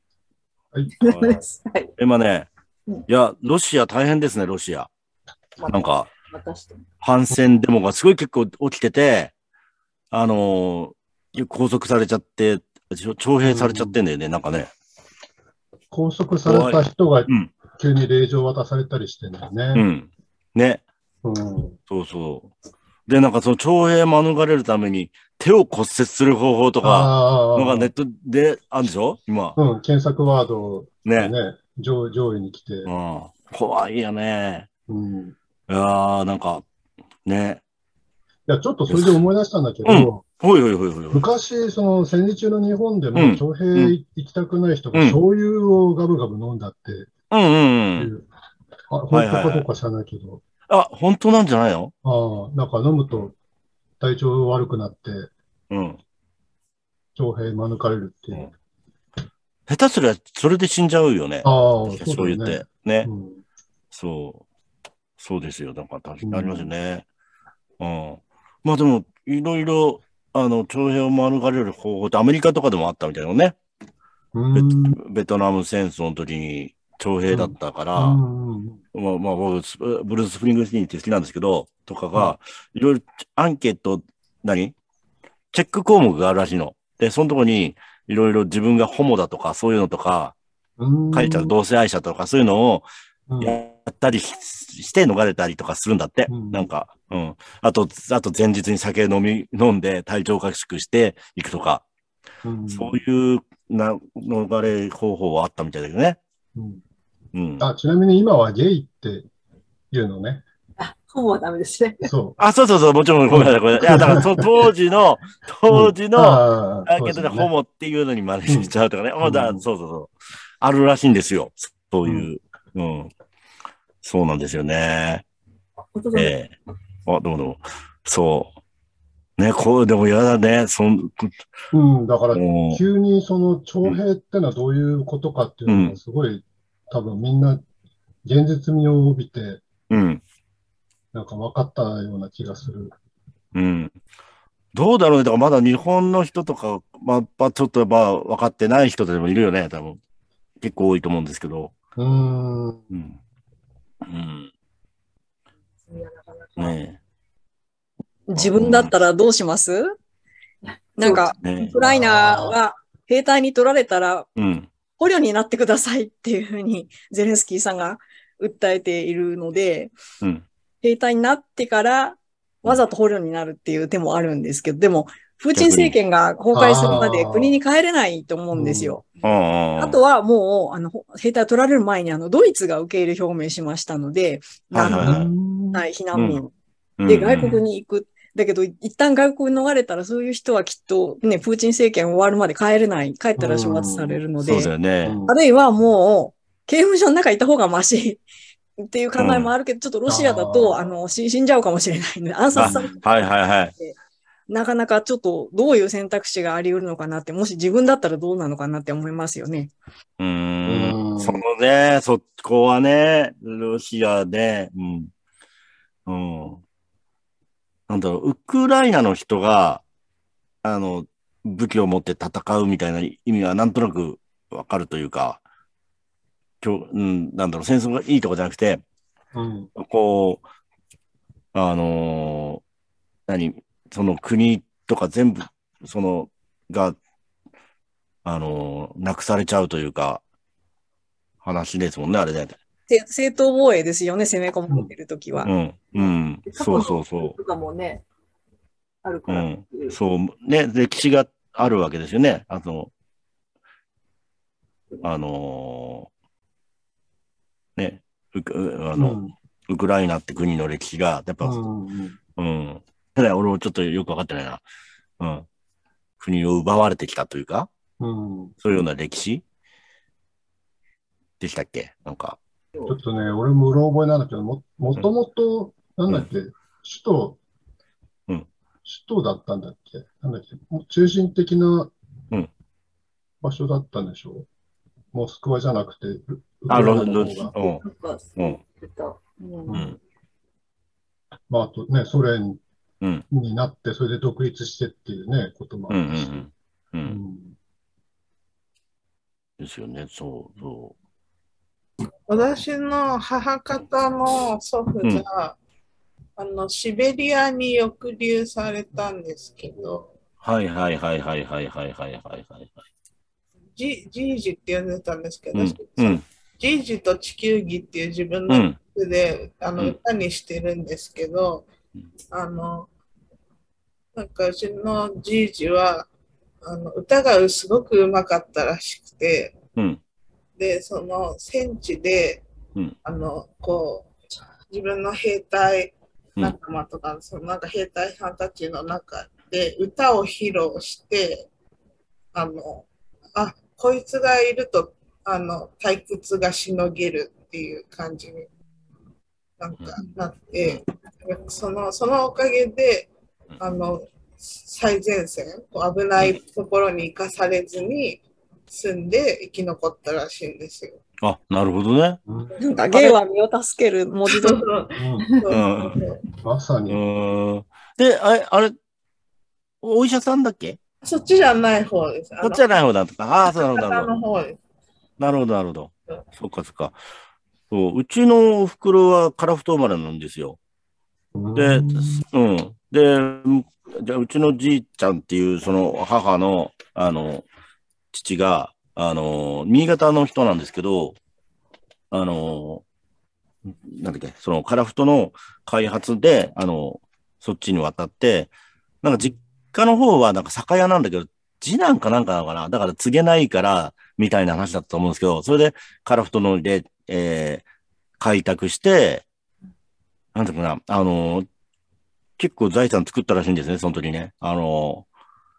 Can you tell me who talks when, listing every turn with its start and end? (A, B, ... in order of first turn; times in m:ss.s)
0:01.0-0:01.4 A
0:01.0-0:01.9 B
0:02.0-0:02.5 A
0:03.1-0:04.9 A
0:05.6-0:06.8 B
0:05.7-0:06.1 A
0:07.0-0:09.3 A
0:10.1-0:14.7 A
0:13.4-0:14.0 C
0:15.9-0:19.8 C
0:16.5-0:17.5 A
0:19.8-0:20.8 A
0:21.2-0:21.8 C
0:21.9-0:22.5 A
0:23.1-0:29.6 A
0:26.8-0:27.9 C
0:29.6-0:32.9 C
0:31.0-0:31.3 A
0:32.8-0:34.7 A
0:34.9-0:35.3 C
0:35.7-0:36.6 A
0:37.2-0:37.6 A
0:38.5-0:40.2 C
0:38.9-0:39.1 A
0:39.8-0:41.2 A
0:41.1-0:47.1 C
0:43.1-0:44.0 A
0:44.9-0:45.2 A
0:47.3-0:48.1 A
0:48.0-0:48.2 C
0:48.9-0:50.4 C
0:49.1-0:49.7 A
0:50.7-0:51.9 A
0:52.0-0:53.3 C
0:54.0-0:55.3 C
0:55.7-0:56.0 A
0:57.2-0:58.5 C
0:59.7-1:03.1 A
1:01.4-1:03.4 C
1:03.9-1:04.4 A
1:05.2-1:07.0 A
1:06.2-1:06.7 C
1:07.8-1:13.6 A
1:14.3-1:15.0 C
1:14.5-1:18.2 A
1:17.3-1:18.8 C
1:18.9-1:24.8 A
1:25.5-1:30.3 A
1:30.8-1:31.5 C
1:31.1-1:32.9 A
1:33.3-1:33.6 C
1:33.4-1:41.8 A
1:36.3-1:36.7 C
1:42.4-1:43.0 C
1:42.7-1:46.2 A
1:46.6-1:46.8 C
1:47.3-1:47.7 A
1:47.6-1:49.2 C
1:49.9-1:50.4 C
1:50.8-1:52.1 B
1:52.0-1:52.4 C
1:52.4-2:03.1 A
1:53.3-1:54.3 C
1:55.7-1:57.5 C
1:58.5-1:59.6 C
2:04.0-2:05.2 A
2:05.9-2:06.3 B
2:06.1-2:06.6 A
2:07.1-2:08.5 A
2:09.4-2:11.3 A
2:11.7-2:17.6 C
2:12.3-2:12.8 A
2:15.7-2:16.0 A
2:18.2-2:19.6 C
2:19.9-2:20.2 A
2:21.1-2:22.9 C
2:23.6-2:23.9 A
2:24.7-2:30.0 A
2:30.6-2:31.7 A
2:32.0-2:32.9 C
2:32.9-2:33.2 A
2:34.0-2:34.5 A
2:35.8-2:36.8 B
2:36.6-2:37.0 A
2:38.3-2:39.9 D
2:38.3-2:38.9 A
2:40.6-2:41.8 B
2:41.0-2:44.3 D
2:41.4-2:41.8 A
2:41.8-2:42.5 C
2:44.4-2:44.7 A
2:45.0-2:49.9 D
2:50.8-2:59.1 D
2:55.6-2:56.0 A
2:56.5-2:57.6 C
2:58.5-2:59.0 C
2:59.2-3:00.0 A
2:59.8-3:14.7 D
3:04.7-3:05.3 A
3:04.8-3:05.9 C
3:06.1-3:06.4 A
3:07.0-3:07.6 A
3:13.4-3:14.2 C
3:14.4-3:15.2 A
3:15.0-3:15.3 C
3:15.3-3:18.2 D
3:18.8-3:24.0 D
3:19.2-3:19.5 A
3:20.1-3:20.9 C
3:22.6-3:23.7 A
3:22.6-3:23.0 C
3:24.5-3:29.7 D
3:30.2-3:35.1 A
3:30.6-3:31.4 C
3:36.1-3:36.6 A
3:37.9-3:39.8 A
3:40.6-3:45.4 A
3:46.6-3:48.8 A
3:49.3-3:49.7 C
3:49.8-3:50.4 A
3:51.5-3:52.6 A
3:53.3-3:57.0 A
3:58.2-4:00.2 A
4:01.4-4:02.6 A
4:02.9-4:05.5 D
4:05.4-4:07.4 A
4:05.9-4:08.0 B
4:09.0-4:10.0 B
4:09.3-4:12.9 A
4:15.0-4:16.1 A
4:17.8-4:19.2 A
4:18.9-4:19.3 C
4:19.7-4:21.6 A
4:21.4-4:22.2 C
4:22.4-4:24.6 A
4:25.2-4:25.5 A
4:26.2-4:27.7 A
4:28.0-4:28.6 C
4:28.6-4:29.4 A
4:31.4-4:32.4 A
4:32.9-4:37.4 C
4:38.8-4:41.9 C
4:43.4-4:44.5 C
4:45.1-4:47.5 C
4:46.7-4:47.8 A
4:47.1-4:49.8 B
4:48.4-4:48.6 A
4:49.7-4:50.0 C
4:51.5-4:52.6 C
4:53.3-4:56.4 C
4:55.9-4:57.2 A
4:57.0-4:57.6 C
4:59.6-5:00.9 A
5:02.3-5:05.6 E
5:06.4-5:10.1 E
5:10.4-5:12.7 A
5:13.8-5:21.7 E
5:15.5-5:16.2 A
5:18.5-5:18.8 A
5:22.3-5:22.9 E
5:24.1-5:26.1 E
5:26.6-5:29.6 E
5:30.6-5:32.4 E
5:33.0-5:34.1 E
5:34.7-5:41.5 E
5:42.3-5:48.5 E
5:49.6-6:01.0 E
6:01.2-6:02.2 A
6:02.3-6:02.6 C
6:02.6-6:04.6 D
6:02.9-6:03.2 E
6:04.2-6:06.2 E
6:05.0-6:05.3 C
6:05.5-6:06.0 A
6:06.4-6:07.0 C
6:06.9-6:08.8 A
6:09.8-6:10.8 A
6:11.0-6:12.6 E
6:12.4-6:14.1 A
6:13.4-6:14.6 E
6:15.2-6:17.0 A
6:17.7-6:20.6 A
6:21.4-6:22.2 C
6:21.6-6:27.4 A
6:28.1-6:31.2 A
6:32.1-6:32.8 A
6:33.8-6:38.5 A
6:39.0-6:47.6 A
6:48.2-6:49.2 A
6:50.4-6:51.5 A
6:52.4-6:55.1 A